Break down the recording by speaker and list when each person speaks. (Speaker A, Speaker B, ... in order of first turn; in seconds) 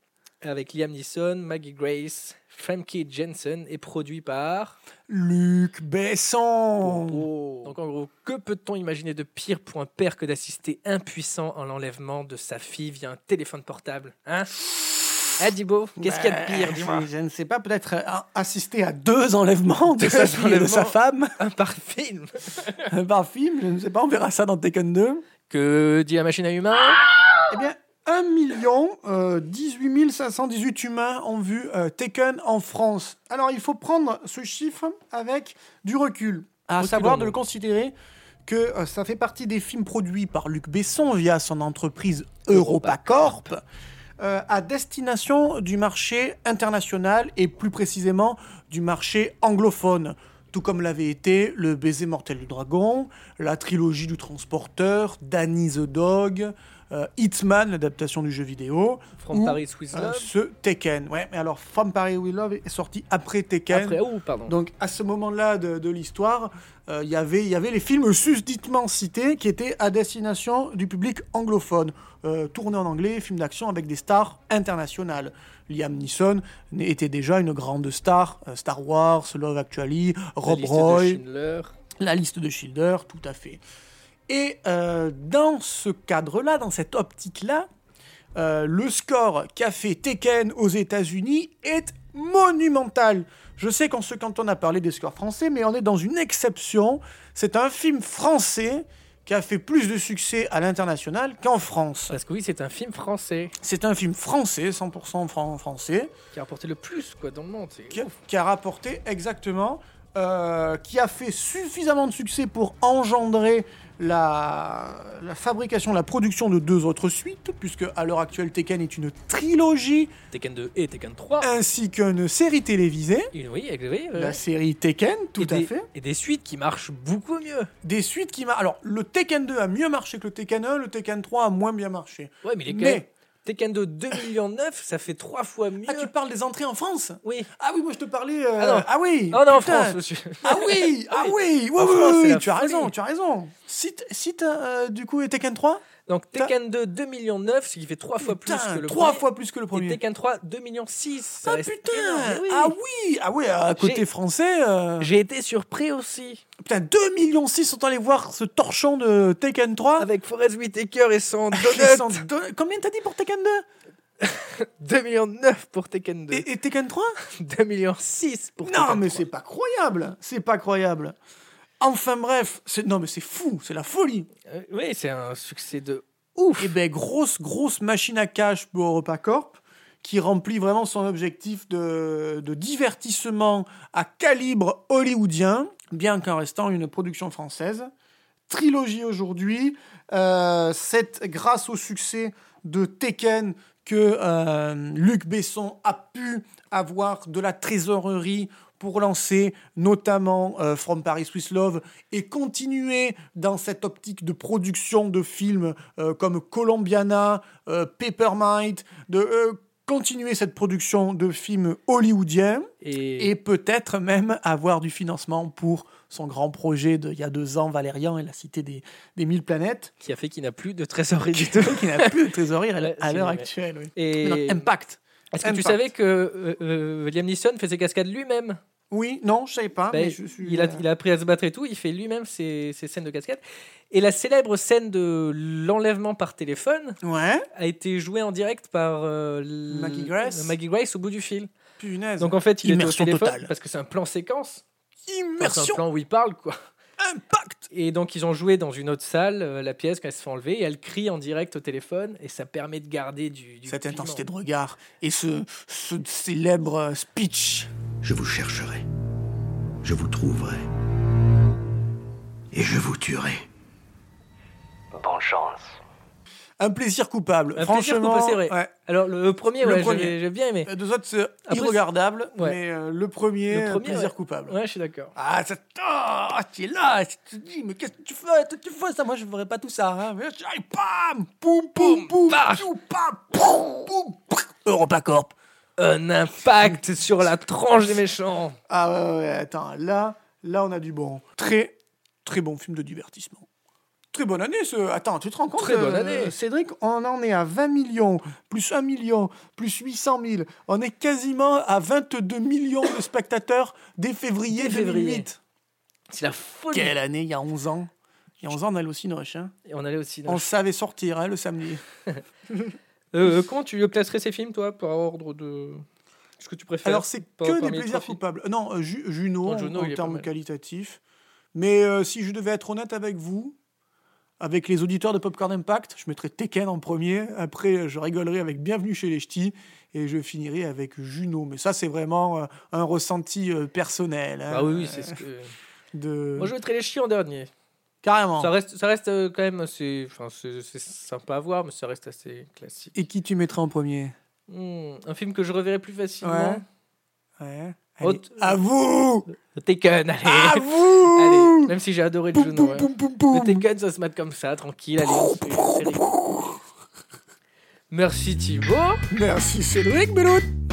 Speaker A: 0.4-4.8, 6.8-14.6, 15.4-17.1, 19.9-22.8, 25.5-27.0, 36.8-37.4, 42.5-43.5, 59.2-60.3, 63.7-64.5, 80.4-81.7, 102.1-103.5, 106.3-108.0, 120.3-121.5, 123.3-124.4, 125.4-127.7, 132.4-136.1, 137.2-137.5, 138.6-142.9, 146.1-152.7, 153.8-154.0, 155.0-156.4, 160.0-162.2, 164.2-166.5, 167.3-169.2, 174.5-176.7, 212.8-213.3, 220.0-222.2, 222.8-224.7, 225.3-228.6, 229.9-237.0, 237.6-241.5, 242.2-244.6, 245.4-246.6, 247.7-254.2, 267.6-270.7, 271.5-271.8, 273.5-275.1, 281.8-282.7, 285.8-288.6, 295.6-296.3, 304.5-305.3, 306.1-306.9, 309.7-310.5, 313.1-315.8, 316.4-318.2, 319.4-320.3, 334.5-335.5, 336.4-337.5, 338.4-342.9, 344.5-346.6, 348.0-348.6, 349.4-356.5, 357.9-359.0
Speaker B: 5.1-7.3, 16.0-21.3, 22.9-25.2, 27.5-37.9, 38.5-43.6, 44.2-81.2, 82.0-83.6, 84.3-87.7, 88.3-102.1, 103.6-106.1, 107.9-120.1, 121.4-123.3, 124.1-125.9, 127.8-133.1, 135.8-146.5, 148.2-150.0, 151.4-155.1, 156.6-160.1, 161.5-163.6, 166.3-167.1, 168.7-171.1, 171.8-174.3, 176.6-187.9, 188.5-212.7, 213.2-219.9, 221.3-225.8, 228.9-230.8, 237.0-237.4, 239.7-240.6, 241.8-243.5, 245.1-245.8, 247.0-247.7, 253.7-257.7, 266.6-268.7, 269.6-274.6, 275.1-285.3, 288.7-293.4, 294.1-305.4, 306.7-307.9, 308.4-309.5, 310.2-311.8, 316.8-321.0, 321.5-323.6, 324.4-335.1, 335.9-336.5, 338.0-338.5, 342.9-344.1, 346.2-346.6, 347.4-349.3, 350.2-351.7, 352.3-353.6, 355.0-356.6, 359.1-360.5
Speaker C: 258.0-258.8, 259.8-260.7, 262.5-263.4